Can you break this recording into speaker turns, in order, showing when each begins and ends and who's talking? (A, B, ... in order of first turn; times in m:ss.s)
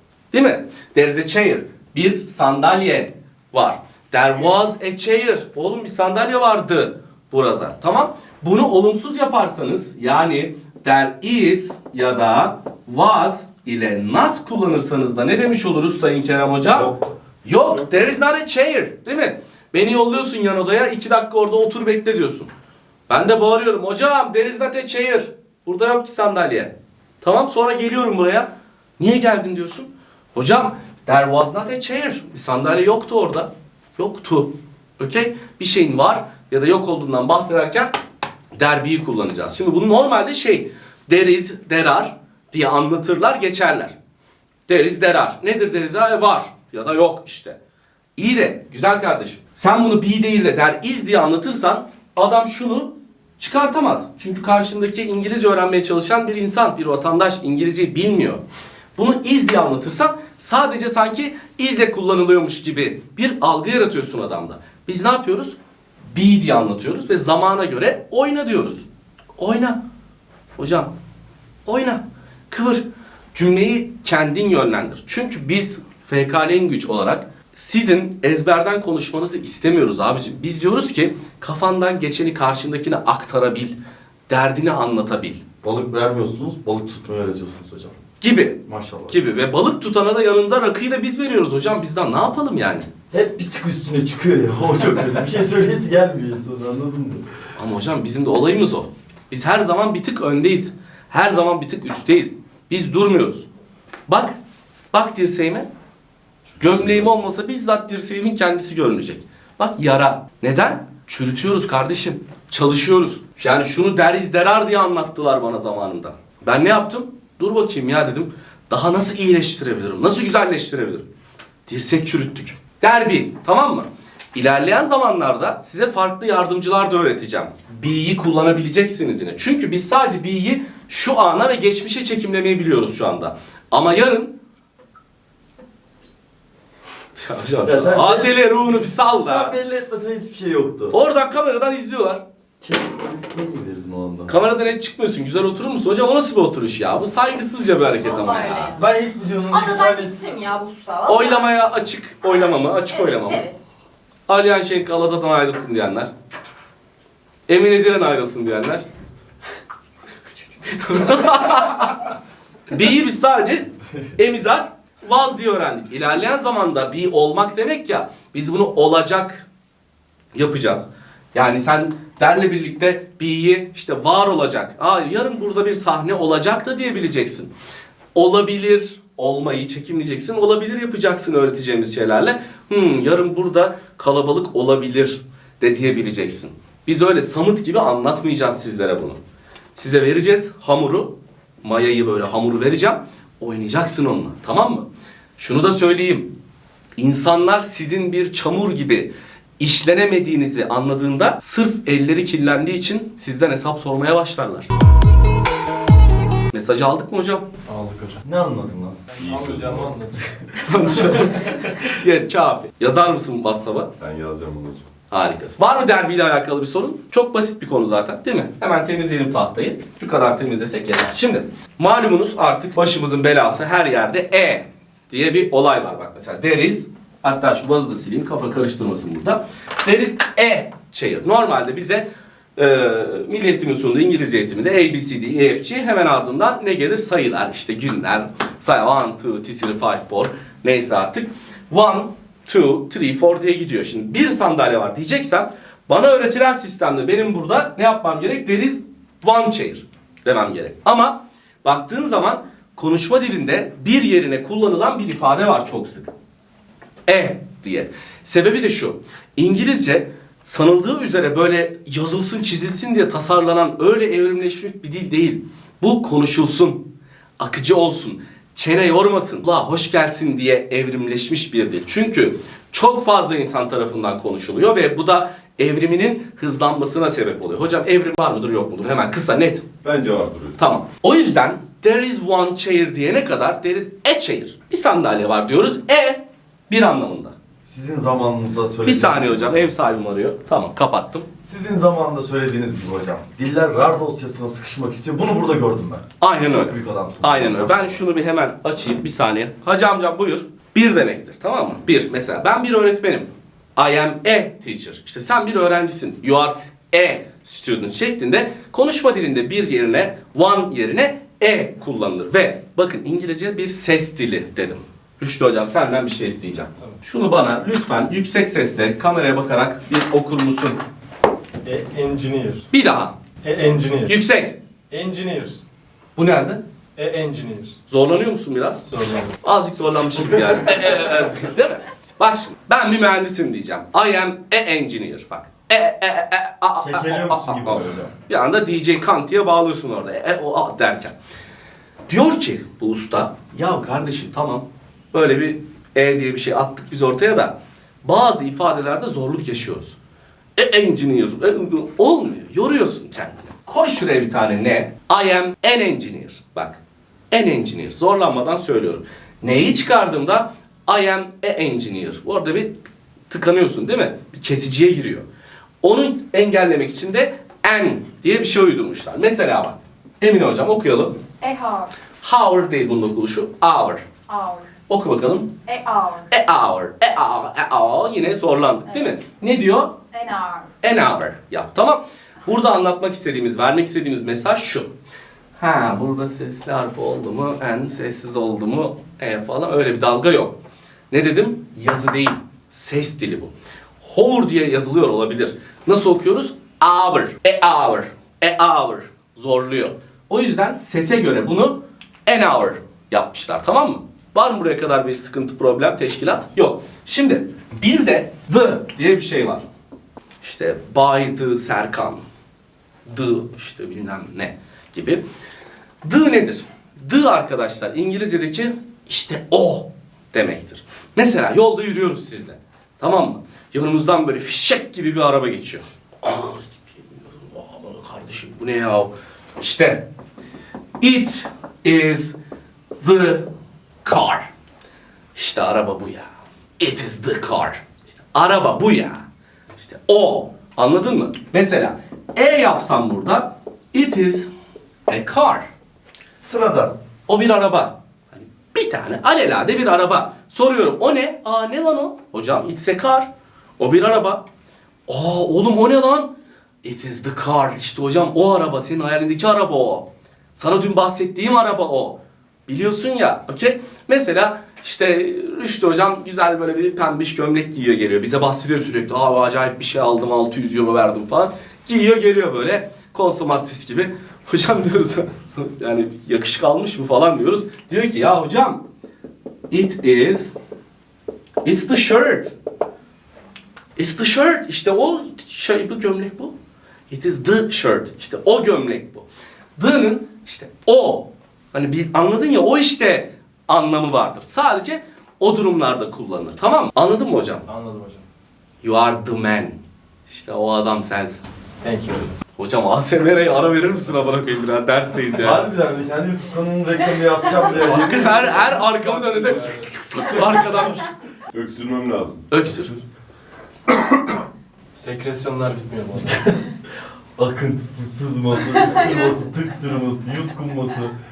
0:00.3-0:16.9 A
0:16.7-0:17.0 B
0:17.4-0:22.5 A
0:23.1-0:38.0 A
0:38.5-0:43.9 A
0:44.7-0:47.6 A
0:48.2-0:58.4 A
0:59.0-1:05.6 A
1:06.1-1:08.8 A
1:09.4-1:09.8 A
1:10.6-1:10.9 A
1:11.6-1:12.8 A
1:13.3-1:23.8 A
1:24.3-1:25.4 A
1:25.6-1:28.0 B
1:28.2-1:32.9 A
1:28.6-1:29.2 B
1:33.1-1:37.2 B
1:37.5-1:43.4 A
1:44.1-1:44.4 A
1:44.9-1:45.7 A
1:46.6-2:01.0 A
1:46.7-1:47.0 C
2:01.7-2:14.3 A
2:17.2-2:19.6 A
2:17.6-2:21.0 B
2:20.9-2:22.2 A
2:22.6-2:24.3 B
2:24.3-2:28.8 A
2:27.9-2:28.9 D
2:28.7-2:30.2 B
2:29.5-2:31.6 D
2:31.0-2:33.4 A
2:32.9-2:33.6 D
2:34.3-2:36.1 A
2:37.5-2:38.8 A
2:40.7-2:42.1 A
2:42.7-2:49.4 A
2:50.3-2:57.5 A
2:58.1-3:09.2 A
3:09.8-3:16.3 A
3:17.0-3:24.7 A
3:26.5-3:27.4 A
3:27.6-3:28.2 E
3:28.2-3:29.0 B
3:29.1-3:30.3 E
3:29.2-3:29.9 C
3:30.6-3:33.9 A
3:31.3-3:31.6 E
3:34.0-3:34.8 C
3:35.1-3:52.0 A
3:52.6-4:16.1 A
4:17.1-4:26.8 A
4:27.4-4:39.6 A
4:39.8-4:40.6 C
4:40.6-4:47.3 A
4:47.6-4:49.7 B
4:48.8-4:51.3 A
4:51.4-4:58.0 B
4:56.2-5:20.8 A
5:21.6-5:22.6 E
5:22.7-5:23.2 A
5:23.4-5:24.2 E
5:24.1-5:24.6 A
5:24.9-5:25.6 E
5:26.2-5:26.6 A
5:27.0-5:27.7 E
5:27.9-5:28.9 A
5:28.9-5:29.4 E
5:29.4-5:41.1 A
5:36.8-5:38.1 B
5:42.1-5:50.0 A
5:50.6-5:56.8 A
5:57.3-6:02.8 A
6:03.3-6:05.2 A
6:05.8-6:11.2 A
6:11.4-6:11.9 D
6:12.2-6:14.0 A
6:14.3-6:14.7 D
6:14.9-6:15.5 A
6:15.6-6:16.3 D
6:16.3-6:20.0 A
6:18.8-6:19.2 D
6:20.1-6:20.7 D
6:20.8-6:24.9 A
6:25.6-6:30.6 A
6:31.1-6:49.6 A
6:50.4-6:52.2 A
6:53.0-6:55.2 A
6:56.0-7:10.0 A
7:11.0-7:12.4 A
7:13.0-7:13.5 A
7:14.0-7:14.5 A
7:15.3-7:16.3 A
7:16.8-7:19.2 A
7:19.8-7:24.5 A
7:25.1-7:25.7 A
7:26.4-7:26.9 B
7:27.3-7:34.4 A
7:35.1-7:36.3 A
7:36.8-7:58.8 A
7:59.7-8:00.5 A
8:01.6-8:02.5 A
8:04.0-8:06.5 A
8:07.1-8:17.6 A
8:17.7-8:18.2 E
8:18.8-8:19.8 A
8:20.3-8:21.4 A
8:21.8-8:22.3 E
8:22.6-8:25.7 A
8:25.4-8:28.6 B
8:27.7-8:31.1 A
8:28.0-8:29.9 E
8:31.5-8:32.5 C
8:32.5-8:32.9 A
8:34.9-8:36.7 E
8:37.4-8:41.1 B